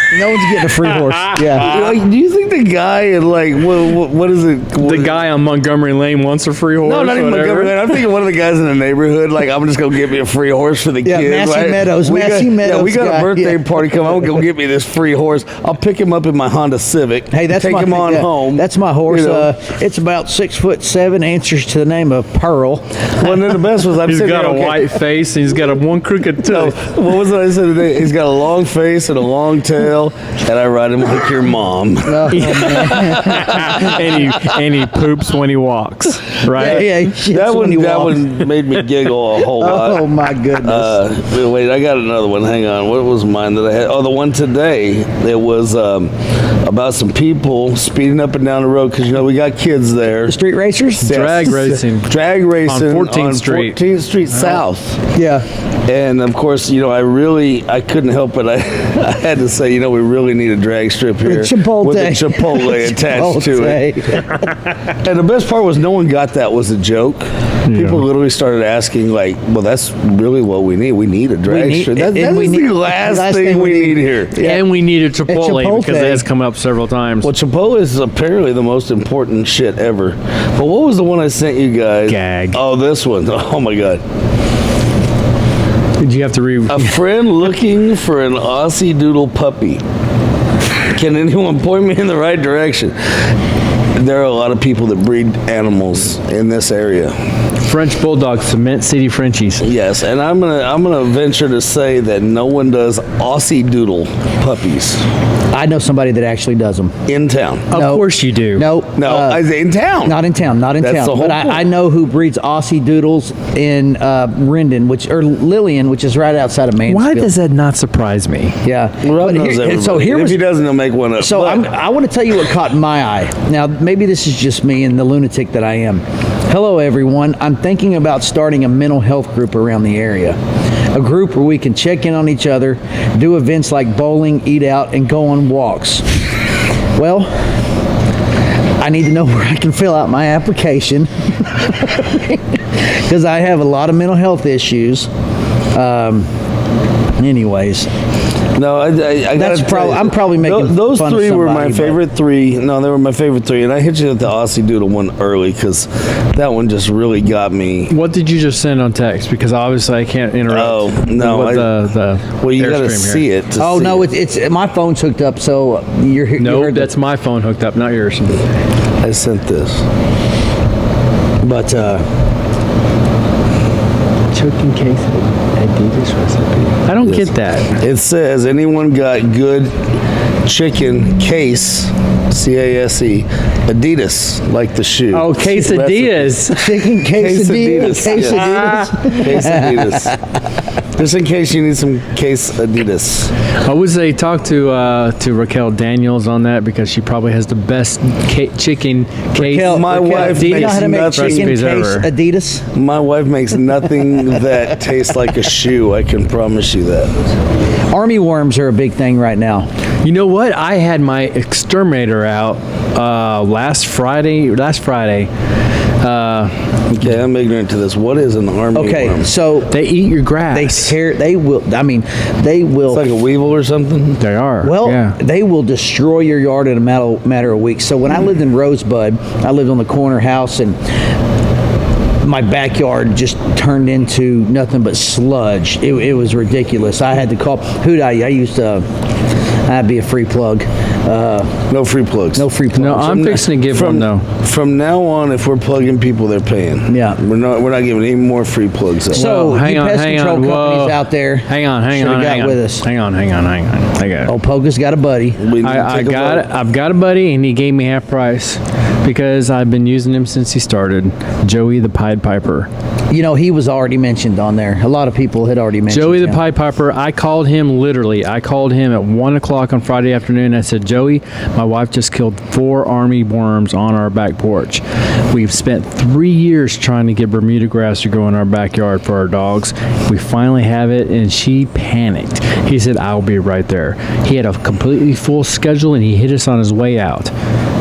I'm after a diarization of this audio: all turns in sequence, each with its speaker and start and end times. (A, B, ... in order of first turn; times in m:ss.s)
0:00.1-0:01.8 A
0:01.0-0:01.5 B
0:01.6-0:05.2 C
0:04.8-0:08.0 B
0:06.8-0:19.5 C
0:11.0-0:13.7 A
0:17.3-0:22.8 A
0:23.2-0:24.9 C
0:24.0-0:26.9 B
0:26.4-0:34.5 C
0:32.1-0:33.7 A
0:32.3-0:36.8 B
0:36.5-0:38.2 A
0:36.6-0:50.4 C
0:39.4-0:41.0 A
0:50.3-0:51.2 A
0:51.0-0:54.6 B
0:51.0-0:55.0 C
0:55.1-0:55.5 A
0:55.9-1:14.5 C
1:01.2-1:04.4 A
1:07.7-1:08.0 B
1:11.5-1:14.6 A
1:14.4-1:17.3 B
1:15.3-1:16.3 A
1:17.2-1:24.0 C
1:22.1-1:22.6 B
1:26.0-1:27.0 B
1:26.7-1:29.8 C
1:30.9-1:33.1 C
1:34.0-1:37.2 C
1:37.6-1:39.6 B
1:39.6-1:45.1 C
1:45.5-1:46.9 A
1:47.1-1:47.7 C
1:47.7-1:48.7 B
1:47.7-1:49.4 A
1:49.0-1:50.2 C
1:50.0-1:57.3 A
1:50.8-1:51.6 C
1:56.9-1:58.6 B
1:58.6-2:00.4 A
1:59.0-2:01.7 C
2:01.2-2:10.4 A
2:10.9-2:16.0 A
2:17.0-2:17.3 A
2:18.8-2:25.1 A
2:25.7-2:26.3 A
2:27.2-2:27.9 A
2:28.6-2:37.9 C
2:29.4-2:32.0 A
2:37.9-2:43.2 B
2:40.5-2:41.7 C
2:42.4-2:44.1 C
2:43.6-2:46.9 A
2:46.4-2:48.4 B
2:49.0-2:49.8 C
2:51.4-2:52.1 A
2:54.3-2:57.8 B
2:57.0-2:59.8 C
3:00.4-3:06.5 C
3:05.1-3:06.8 B
3:06.5-3:10.2 A
3:07.1-3:10.2 C
3:08.2-3:09.0 B
3:11.0-3:13.3 C
3:13.6-3:22.1 B
3:19.4-3:22.6 A
3:19.5-3:21.6 C
3:22.7-3:27.1 C
3:27.9-3:29.7 A
3:30.0-3:35.3 B
3:36.0-3:36.5 B
3:36.9-3:39.3 C
3:38.7-3:39.8 A
3:39.7-3:40.9 B
3:40.5-3:43.1 A
3:42.9-3:44.2 C
3:44.2-3:45.2 B
3:44.6-3:50.8 A
3:52.2-3:58.9 A
3:59.7-4:01.5 A
4:01.7-4:02.5 C
4:02.4-4:03.3 A
4:02.7-4:04.2 B
4:03.0-4:09.3 C
4:06.9-4:07.2 A
4:09.1-4:12.8 A
4:09.1-4:14.3 B
4:14.3-4:15.4 A
4:15.4-4:16.5 C
4:15.6-4:22.7 B
4:23.1-4:26.4 A
4:25.9-4:47.3 B